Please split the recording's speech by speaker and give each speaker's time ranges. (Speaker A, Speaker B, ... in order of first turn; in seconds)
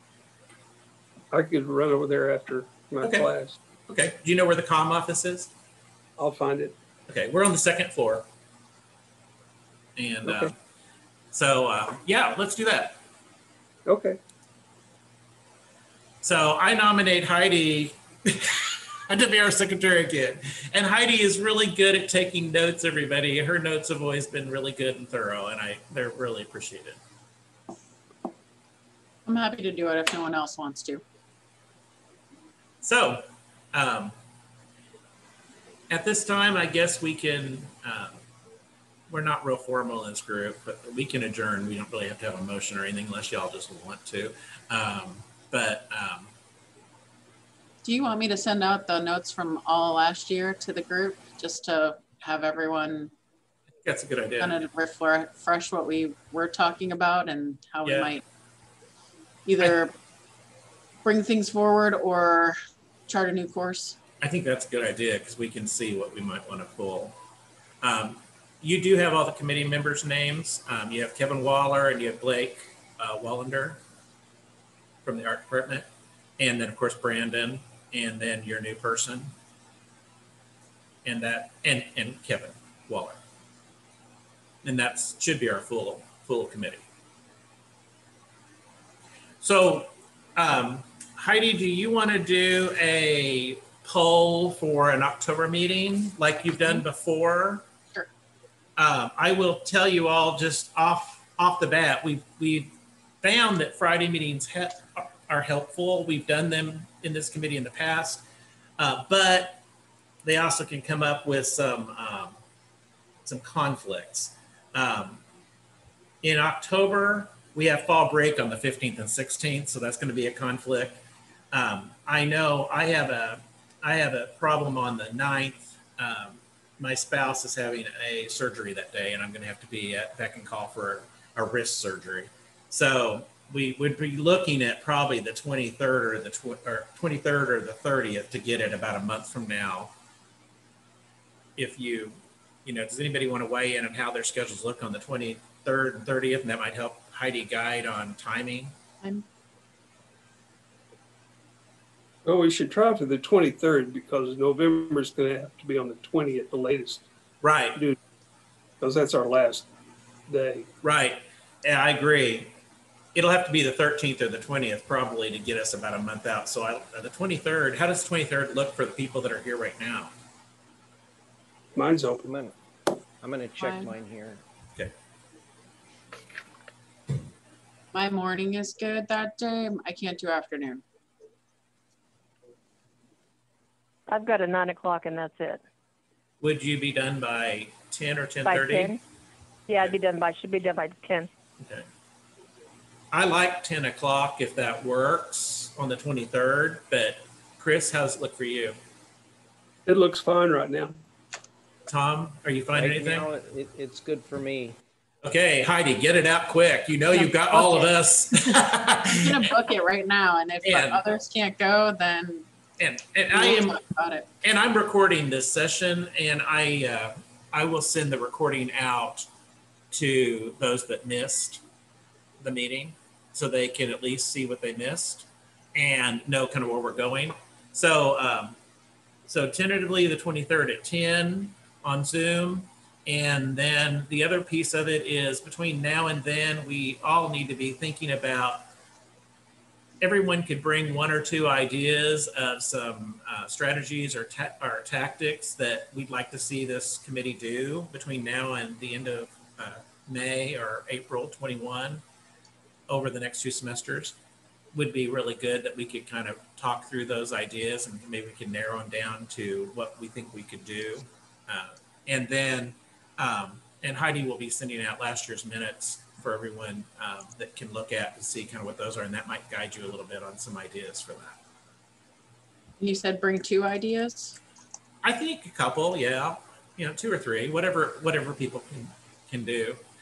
Speaker A: 1.3-3.6, 6.2-6.8, 10.2-10.5, 13.9-14.2, 152.2-157.1, 158.8-159.7, 160.3-160.7, 171.8-172.3, 199.9-200.9
Speaker B: 3.0-3.3, 3.9-5.5, 7.1-8.3, 10.0-10.5, 11.3-13.0, 16.2-27.0, 32.8-34.1, 35.9-38.2, 39.1-46.3, 53.8-54.6, 57.8-58.1, 64.2-67.2, 67.8-73.8, 75.0-75.9, 76.4-79.3, 81.0-83.2, 84.6-86.8, 89.4-97.6, 98.8-108.2, 108.8-109.6, 110.2-112.4, 113.2-115.2, 116.2-121.0, 121.5-139.9, 141.6-148.7, 157.4-157.8, 160.8-162.5, 163.2-170.1, 186.4-189.0, 191.6-191.9, 193.1-198.8, 201.9-203.3, 205.2-209.5, 210.6-211.0, 212.8-213.8, 214.4-219.3, 219.9-221.6, 222.4-228.6, 229.3-238.6, 240.0-252.0, 252.9-254.2, 254.7-271.4, 275.0-279.8
Speaker C: 29.3-31.0, 47.8-53.1, 54.4-58.2, 59.5-59.9, 61.0-62.6, 63.1-64.0, 173.6-173.9, 177.9-180.8, 207.1-208.6, 209.2-212.5, 213.3-214.3, 272.8-274.4
Speaker D: 172.2-172.6, 173.2-174.4, 202.8-204.8
Speaker E: 184.1-185.6, 188.4-189.0, 189.7-191.3